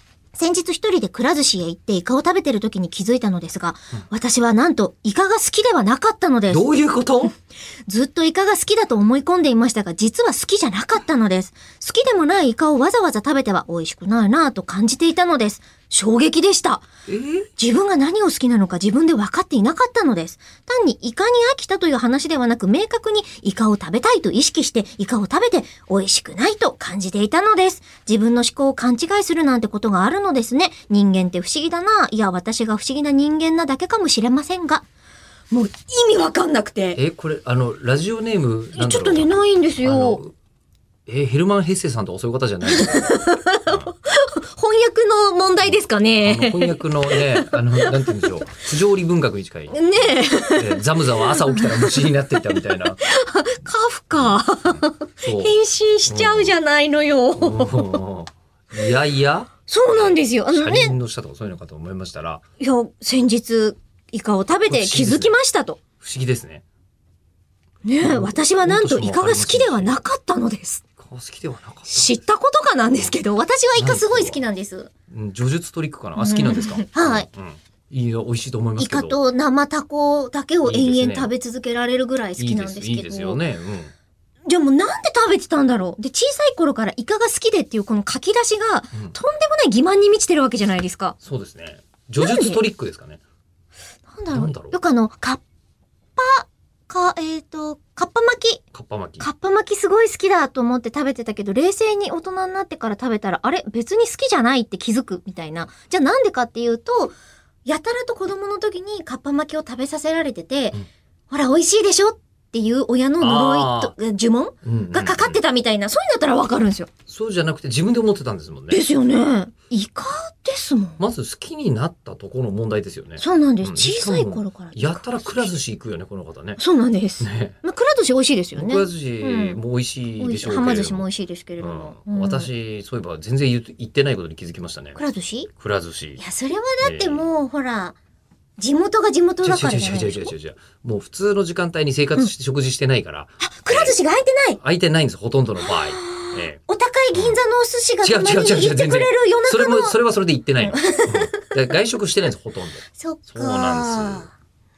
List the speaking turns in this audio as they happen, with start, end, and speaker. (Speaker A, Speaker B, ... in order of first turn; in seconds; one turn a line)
Speaker A: 0.3-6.7
Speaker B: 6.5-7.3
Speaker A: 7.9-16.8
Speaker B: 17.1-17.5
Speaker A: 17.6-34.8
Speaker A: 35.5-37.0
Speaker B: 36.9-40.3
Speaker A: 38.7-40.2
Speaker B: 41.1-43.9
Speaker A: 42.7-48.5
Speaker B: 45.7-53.0
Speaker A: 49.7-58.0
Speaker B: 54.1-55.5
Speaker B: 56.0-56.5
Speaker B: 57.3-62.4
Speaker A: 59.7-61.0
Speaker A: 62.6-65.8
Speaker B: 64.7-65.3
Speaker B: 66.0-66.6
Speaker A: 67.8-70.8
Speaker B: 68.0-70.0
Speaker B: 71.0-72.2
Speaker A: 71.9-74.9
Speaker B: 73.8-74.4
Speaker B: 75.1-79.2
Speaker A: 76.2-77.3
Speaker A: 78.8-83.4
Speaker B: 80.6-81.3
Speaker B: 82.4-83.9
Speaker A: 84.5-91.2
Speaker B: 91.2-93.2
Speaker A: 92.2-92.6
Speaker A: 94.1-95.4
Speaker B: 94.3-94.8
Speaker A: 96.2-98.6
Speaker B: 98.7-99.3
Speaker A: 99.2-116.9
Speaker B: 113.2-113.9
Speaker B: 114.6-115.4
Speaker B: 117.1-118.8
Speaker A: 118.7-121.0
Speaker B: 121.0-126.6
Speaker A: 123.2-125.5
Speaker A: 126.6-129.6
Speaker B: 127.2-127.6
Speaker B: 128.6-131.1
Speaker A: 130.2-132.5
Speaker B: 131.6-135.0
Speaker A: 134.9-135.5
Speaker B: 135.6-136.2
Speaker A: 136.2-138.0
Speaker B: 136.8-137.3
Speaker A: 138.6-140.3
Speaker B: 139.4-143.9
Speaker A: 143.4-144.6
Speaker B: 144.6-146.6
Speaker A: 145.6-149.9
Speaker B: 147.1-147.4
Speaker B: 148.0-154.3
Speaker A: 150.6-151.5
Speaker A: 152.9-154.3